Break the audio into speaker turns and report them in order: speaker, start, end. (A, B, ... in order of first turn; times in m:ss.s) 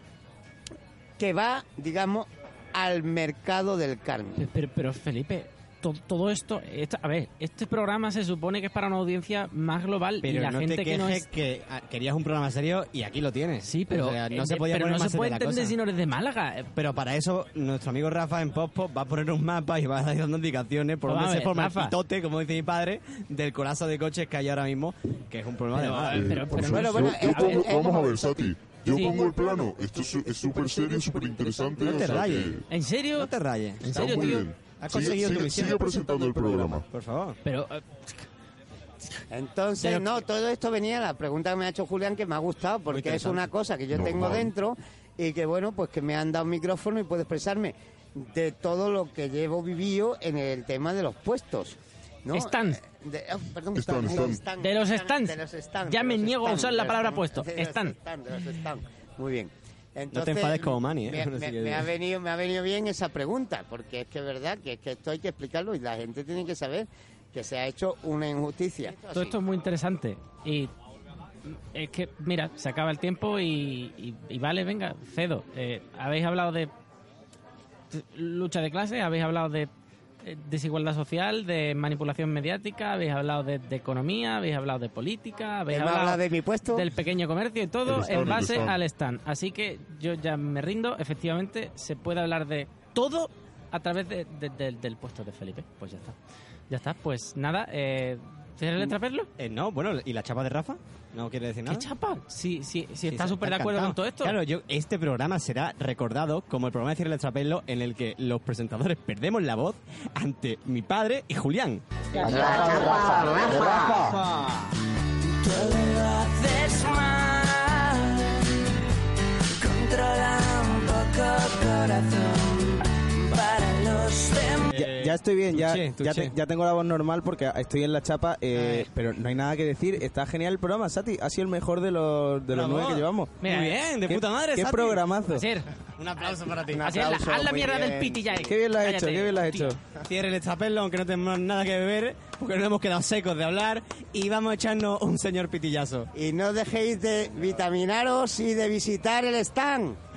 0:01.2-0:04.5 A
0:04.4-0:11.3 B
0:10.2-0:15.8 C
0:13.6-0:16.7 B
0:16.8-0:26.5 C
0:21.1-0:22.0 B
0:25.7-0:27.8 B
0:26.1-0:32.6 D
0:26.6-0:28.5 A
0:28.9-0:29.3 B
0:31.8-0:37.4 C
0:32.7-0:34.5 B
0:33.9-0:36.8 D
0:37.4-0:38.1 B
0:39.3-1:09.4 A
0:39.8-0:40.1 C
0:42.9-0:43.5 C
0:43.9-0:44.5 D
0:52.3-0:52.8 B
0:53.7-0:54.4 D
0:54.6-0:55.4 B
0:55.9-0:57.9 B
1:00.1-1:01.9 C
1:09.1-1:10.7 B
1:11.5-1:16.7 B
1:17.9-1:19.7 B
1:20.2-1:36.2 B
1:25.7-1:26.9 A
1:27.9-1:28.8 D
1:36.7-1:39.3 B
1:38.8-1:41.9 C
1:41.7-1:44.4 B
1:43.1-1:51.8 C
1:52.2-1:54.6 E
1:52.2-1:53.8 A
1:55.3-1:58.5 E
1:59.6-2:04.8 E
2:04.7-2:06.3 C
2:04.8-2:13.3 F
2:08.5-2:08.9 C
2:12.5-2:15.0 C
2:13.4-2:14.0 B
2:14.1-2:15.4 F
2:15.3-2:15.7 B
2:16.0-2:17.3 C
2:16.8-2:19.8 B
2:16.9-2:17.8 F
2:18.2-2:18.5 A
2:18.5-2:19.8 F
2:20.0-2:26.1 C
2:26.1-2:30.0 A